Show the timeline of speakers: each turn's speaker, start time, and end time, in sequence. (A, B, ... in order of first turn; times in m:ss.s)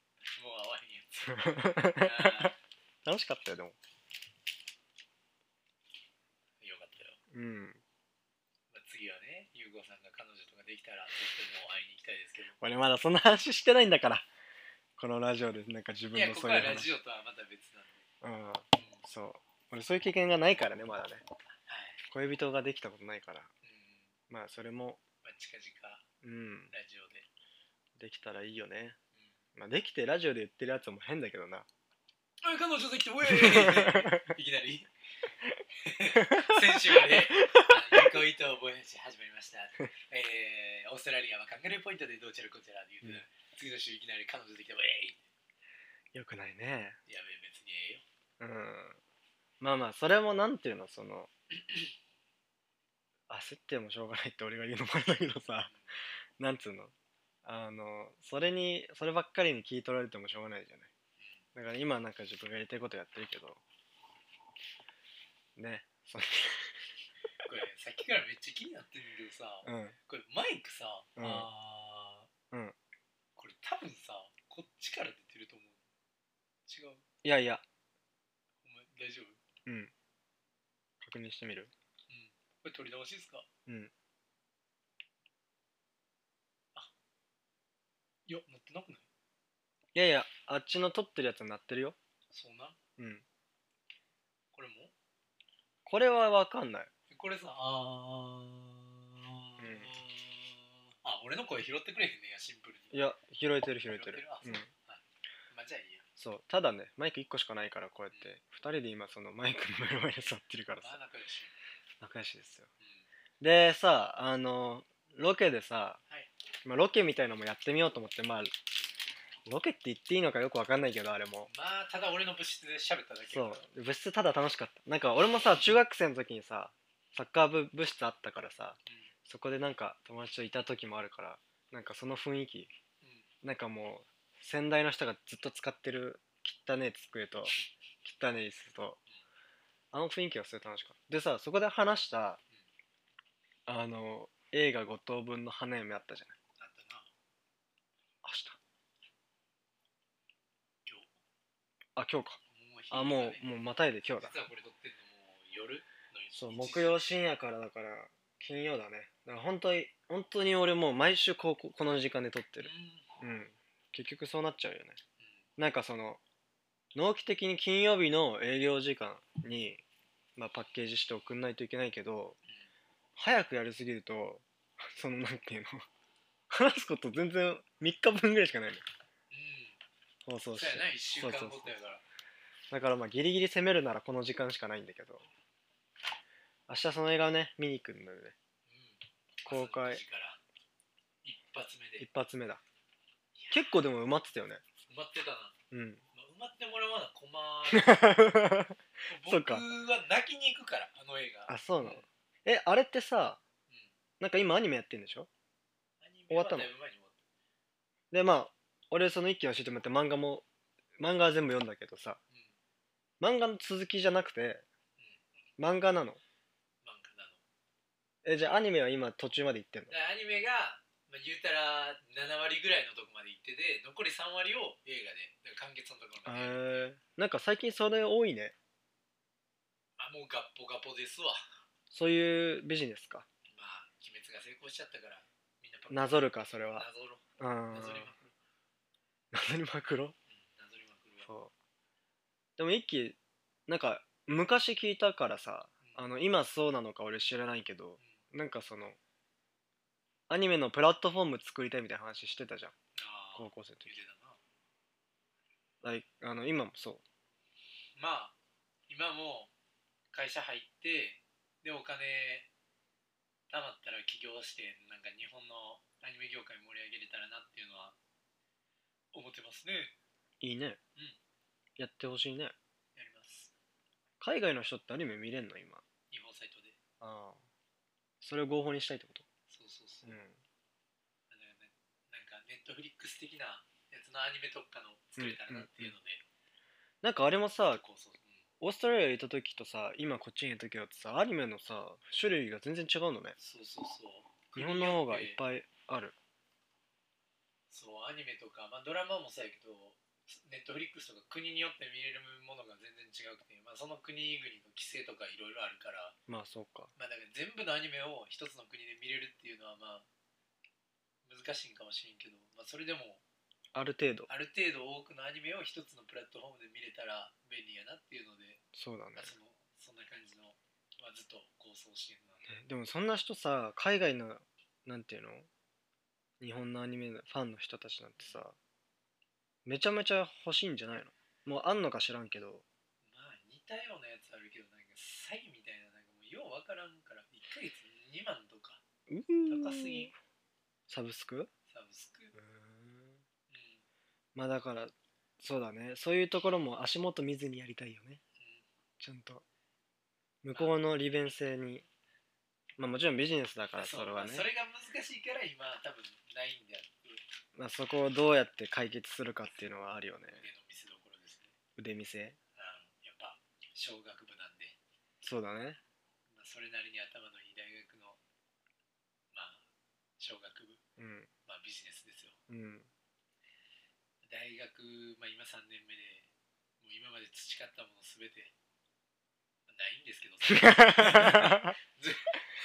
0:00.4-0:02.6 A
0:01.3-0:02.5 B
0:03.0-0:03.8 B
0:06.6-0:07.2 A
0:07.3-0:07.8 B
0:08.7-0:12.6 A
0:12.6-0:14.3 B
0:15.0-0:16.9 B
0:16.1-0:18.0 A
0:18.2-0:21.2 B
0:18.7-0:19.0 A
0:21.7-0:22.0 A
0:22.1-0:23.5 B
0:23.6-0:24.1 A
0:24.3-0:25.0 B
0:25.2-0:26.0 A
0:26.2-0:26.7 B
0:26.7-0:27.2 A
0:28.0-0:29.0 B
0:29.6-0:31.7 B
0:32.4-0:34.9 A
0:33.3-0:34.3 B
0:35.8-0:45.2 A
0:36.2-0:38.1 B
0:46.1-0:47.0 B
0:47.1-0:48.0 A
0:48.4-0:49.0 B
0:49.6-0:51.3 B
0:53.3-0:55.7 B
0:56.4-0:56.9 B
0:57.4-1:00.9 B
1:01.5-1:03.6 B
1:05.6-1:06.8 B
1:07.4-1:12.3 A
1:09.6-1:10.0 B
1:11.2-1:11.5 B
1:12.5-1:12.8 B
1:13.4-1:15.8 A
1:16.7-1:17.0 A
1:17.2-1:17.6 B
1:18.6-1:19.4 A
1:19.6-1:19.9 B
1:21.0-1:21.7 B
1:22.1-1:23.4 A
1:23.6-1:23.9 B
1:28.3-1:29.0 A
1:29.9-1:32.0 B
1:32.3-1:32.8 A
1:33.0-1:33.2 B
1:34.5-1:34.9 A
1:35.8-1:36.9 B
1:37.1-1:42.9 A
1:39.6-1:39.9 B
1:42.9-1:44.7 B
1:43.9-1:46.0 A
1:46.2-1:51.0 B
1:50.8-1:51.5 A
1:52.0-1:52.7 B
1:53.4-1:56.0 B
1:56.6-1:58.5 B
1:59.4-2:01.5 B
2:01.5-2:03.6 A
2:03.3-2:12.7 B
2:13.4-2:19.0 B
2:19.9-2:22.4 B
2:23.7-2:26.4 B
2:26.6-2:27.1 A
2:28.2-2:28.6 B
2:32.0-2:32.4 B
2:32.5-2:33.4 A
2:32.9-2:34.3 B
2:34.2-2:37.1 A
2:36.3-2:45.0 B
2:42.6-2:43.1 A
2:45.6-2:46.2 B
2:46.9-2:49.8 B
2:50.4-2:52.4 B
2:53.2-2:55.8 B
2:56.5-2:58.8 B
2:59.3-2:59.8 A
3:00.2-3:01.7 B
3:00.5-3:02.0 A
3:02.7-3:05.3 B
3:06.7-3:08.3 B
3:08.7-3:10.4 A
3:09.4-3:10.0 B
3:11.2-3:12.1 A
3:12.0-3:12.6 B
3:13.4-3:13.7 A
3:13.5-3:14.6 B
3:14.9-3:15.5 A
3:15.7-3:16.0 B
3:16.1-3:18.4 A
3:17.7-3:19.6 B
3:19.1-3:22.0 A
3:21.5-3:23.4 B
3:24.2-3:25.3 B
3:26.0-3:27.1 A
3:26.3-3:26.7 B
3:28.1-3:30.4 B
3:31.0-3:32.2 B
3:33.2-3:34.6 B
3:35.6-3:36.2 B
3:36.8-3:37.4 A
3:38.2-3:39.9 B
3:39.9-3:46.9 A
3:46.2-3:48.5 B
3:50.0-3:51.4 A
3:51.9-3:53.2 B
3:53.5-3:58.3 A
3:55.9-3:56.9 B
3:57.4-3:58.1 B
3:59.3-4:00.2 B
4:00.3-4:01.3 A
4:01.2-4:01.5 B
4:02.6-4:09.0 B
4:10.3-4:12.7 B
4:13.0-4:14.4 A
4:13.3-4:13.9 B
4:15.8-4:17.0 B
4:18.0-4:18.3 A
4:18.9-4:19.5 A
4:20.1-4:22.5 A
4:23.5-4:28.0 A
4:29.1-4:29.9 A
4:30.4-4:30.8 B
4:31.8-4:32.5 B
4:33.0-4:33.5 A
4:34.2-4:35.8 B
4:36.1-4:36.8 A
4:37.0-4:37.4 B
4:38.2-4:39.2 B
4:39.5-4:40.2 A
4:40.0-4:40.4 B
4:41.3-4:46.2 A
4:45.2-4:45.9 B
4:47.0-4:47.8 B
4:47.7-4:48.4 A
4:48.6-4:53.4 B
4:53.4-4:55.4 A
4:54.5-4:56.2 B
4:57.7-5:06.2 A
5:06.3-5:06.9 B
5:07.0-5:10.0 A
5:11.2-5:13.2 A
5:13.7-5:14.3 B
5:14.3-5:18.6 A
5:18.7-5:19.3 B
5:19.2-5:22.5 A
5:22.5-5:25.5 B
5:26.4-5:28.6 B
5:29.6-5:32.6 B
5:33.0-5:38.8 A
5:39.1-5:40.1 B
5:39.5-5:40.1 A
5:40.9-5:41.5 B
5:41.7-5:42.3 A
5:42.3-5:43.2 B
5:43.5-5:43.8 A
5:44.3-5:48.2 B
5:49.0-5:49.4 B
5:50.4-5:51.9 B
5:52.8-5:54.5 B
5:53.8-5:57.2 A
5:57.5-6:00.4 B
6:00.3-6:01.5 A
6:01.8-6:02.4 B
6:02.6-6:04.8 A
6:05.2-6:05.8 B
6:06.3-6:08.2 A
6:09.3-6:09.6 A
6:10.2-6:10.8 A
6:11.0-6:11.3 B
6:11.5-6:12.4 A
6:12.5-6:12.9 B
6:14.2-6:16.3 A
6:16.8-6:18.5 A
6:19.7-6:22.4 A
6:20.5-6:21.8 B